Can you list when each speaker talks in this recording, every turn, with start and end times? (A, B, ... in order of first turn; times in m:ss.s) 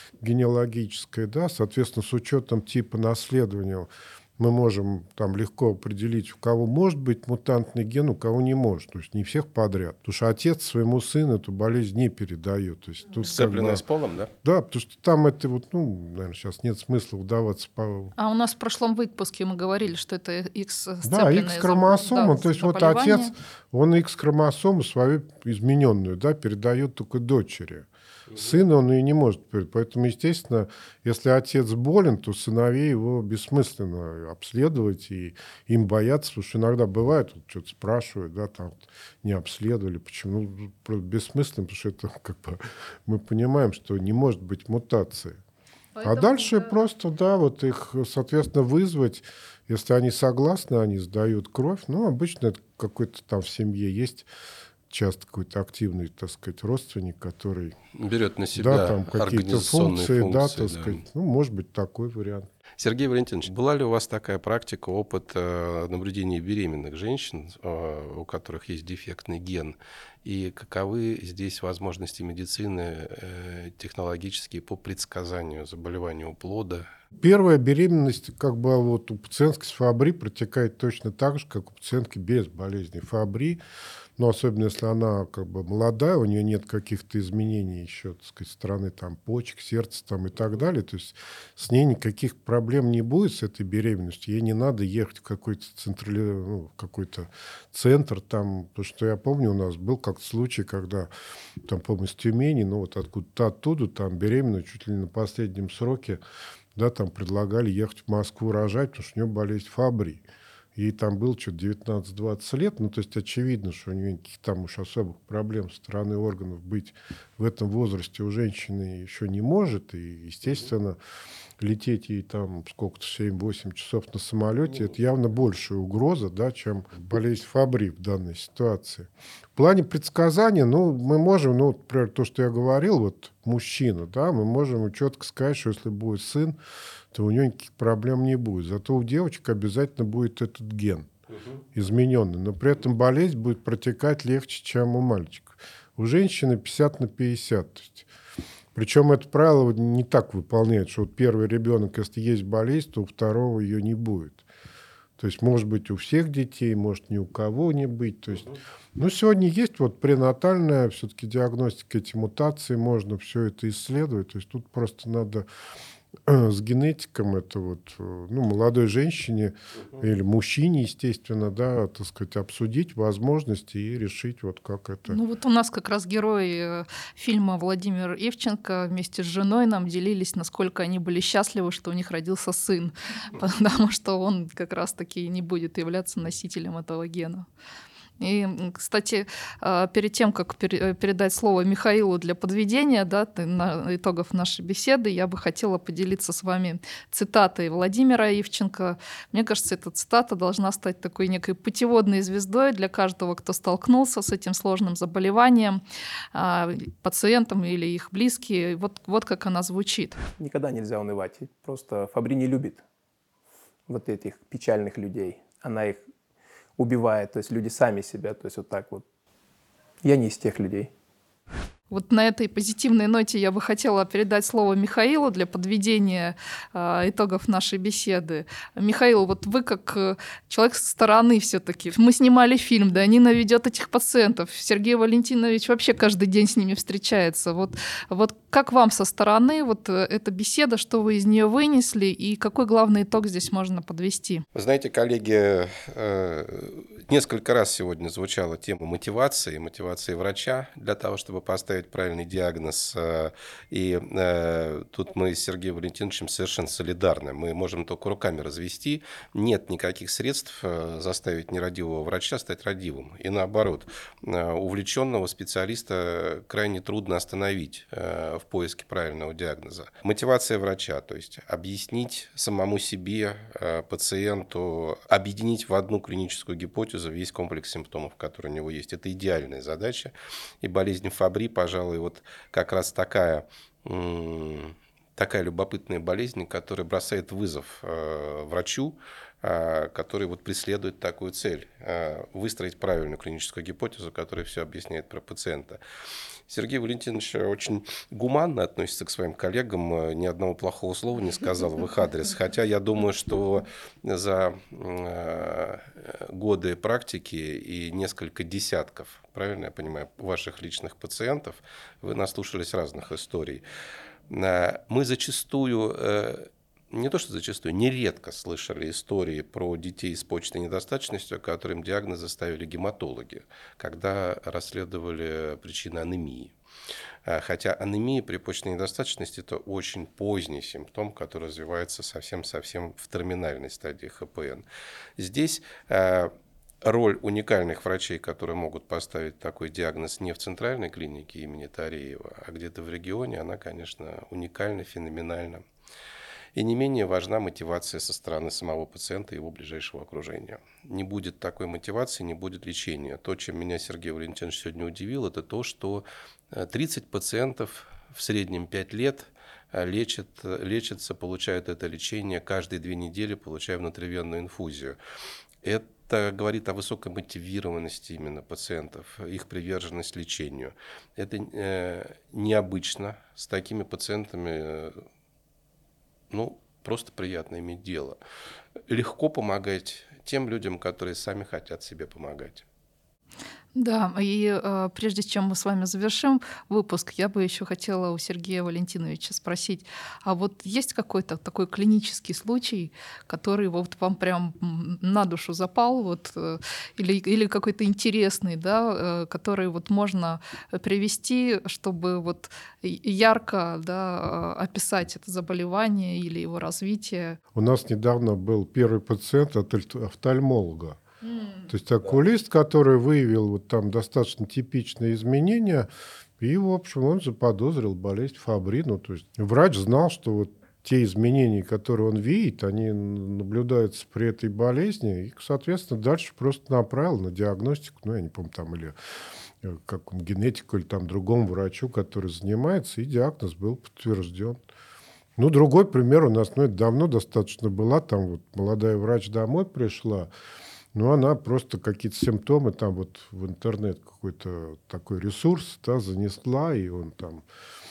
0:00.2-0:13.8 A
0:13.2-0:14.3 B
0:14.4-0:18.1 A
0:18.2-0:23.3 C
0:21.0-0:45.4 A
0:45.9-0:46.7 C
0:46.0-0:54.3 A
0:54.9-0:57.8 A
0:58.0-1:01.0 B
0:58.6-1:02.5 A
1:02.8-1:16.8 B
1:17.2-1:23.6 A
1:24.2-1:41.1 A
1:41.6-1:46.2 A
1:46.7-2:01.0 A
2:01.6-2:16.6 A
2:17.1-2:21.1 A
2:21.7-2:28.1 A
2:28.7-2:34.4 A
2:35.2-2:45.4 A
2:46.2-2:55.2 A
2:55.1-3:07.4 C
3:08.2-3:25.8 C
3:26.3-3:30.2 C
3:30.4-3:32.8 D
3:33.9-3:36.0 D
3:36.8-3:39.0 D
3:40.0-3:40.9 D
3:41.9-4:04.4 C
4:04.5-4:55.8 B
4:56.5-5:13.6 B
5:14.3-5:26.5 B
5:27.2-5:34.6 B
5:35.2-5:45.6 B
5:46.5-6:05.0 B
6:05.6-6:15.0 B
6:16.3-6:18.2 B
6:18.9-6:22.6 B
6:23.7-6:47.4 C
6:47.5-6:51.0 A
6:51.2-6:51.7 C
6:51.7-6:55.9 A
6:56.4-7:09.0 A
7:09.6-7:14.6 A
7:15.4-7:20.3 A
7:20.9-7:27.4 A